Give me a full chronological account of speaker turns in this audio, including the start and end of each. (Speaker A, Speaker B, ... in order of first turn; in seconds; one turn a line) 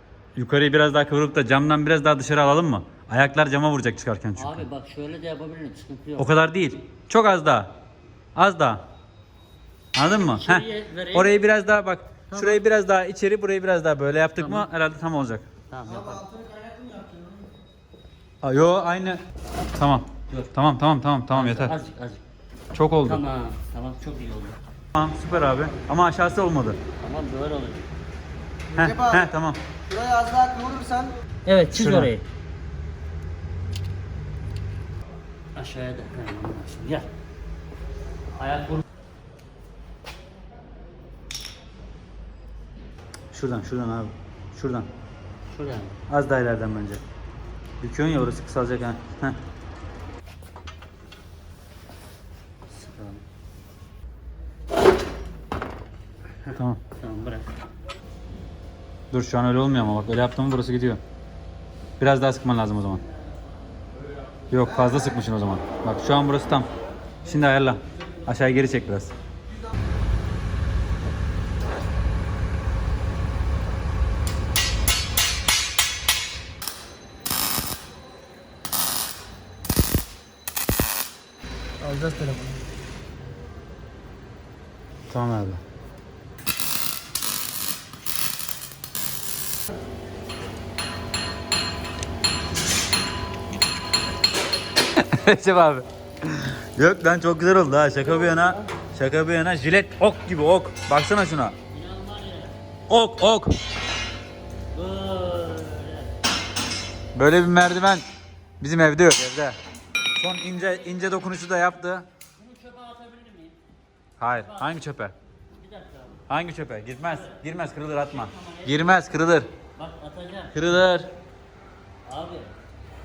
Speaker A: 0.3-4.7
Speaker B: 4.3-6.4
Speaker A: 6.2-7.7
Speaker A: 8.3-8.8
Speaker A: 9.9-15.4
Speaker B: 10.2-11.4
Speaker B: 12.3-12.6
Speaker B: 14.3-14.7
Speaker B: 15.7-16.3
Speaker C: 16.1-17.3
Speaker A: 18.4-19.2
Speaker A: 19.7-21.7
Speaker B: 21.3-22.2
Speaker A: 22.7-23.2
Speaker B: 23.0-24.6
Speaker A: 24.9-26.8
Speaker B: 27.0-27.9
Speaker C: 28.7-29.3
Speaker A: 28.7-29.6
Speaker C: 29.9-31.1
Speaker B: 31.4-32.2
Speaker A: 31.7-32.1
Speaker B: 35.5-37.1
Speaker B: 38.4-38.8
Speaker A: 43.3-44.9
Speaker B: 45.5-46.0
Speaker A: 46.1-47.0
Speaker A: 47.8-49.4
Speaker B: 52.7-53.2
Speaker A: 56.5-56.8
Speaker B: 57.0-57.5
Speaker A: 59.1-61.0
Speaker A: 62.0-63.0
Speaker A: 64.5-66.7
Speaker A: 67.2-69.1
Speaker C: 81.8-82.6
Speaker A: 85.1-85.6
Speaker A: 94.9-101.5
Speaker B: 101.7-102.5
Speaker A: 102.9-103.5
Speaker B: 104.7-106.2
Speaker A: 107.1-108.0
Speaker A: 108.6-109.6
Speaker A: 110.2-112.1
Speaker B: 110.6-111.2
Speaker B: 112.3-113.6
Speaker A: 114.2-115.1
Speaker B: 114.3-114.8
Speaker B: 115.5-116.2
Speaker A: 116.3-119.5
Speaker B: 117.0-119.0
Speaker B: 119.7-120.5
Speaker A: 120.5-121.1
Speaker B: 122.0-122.5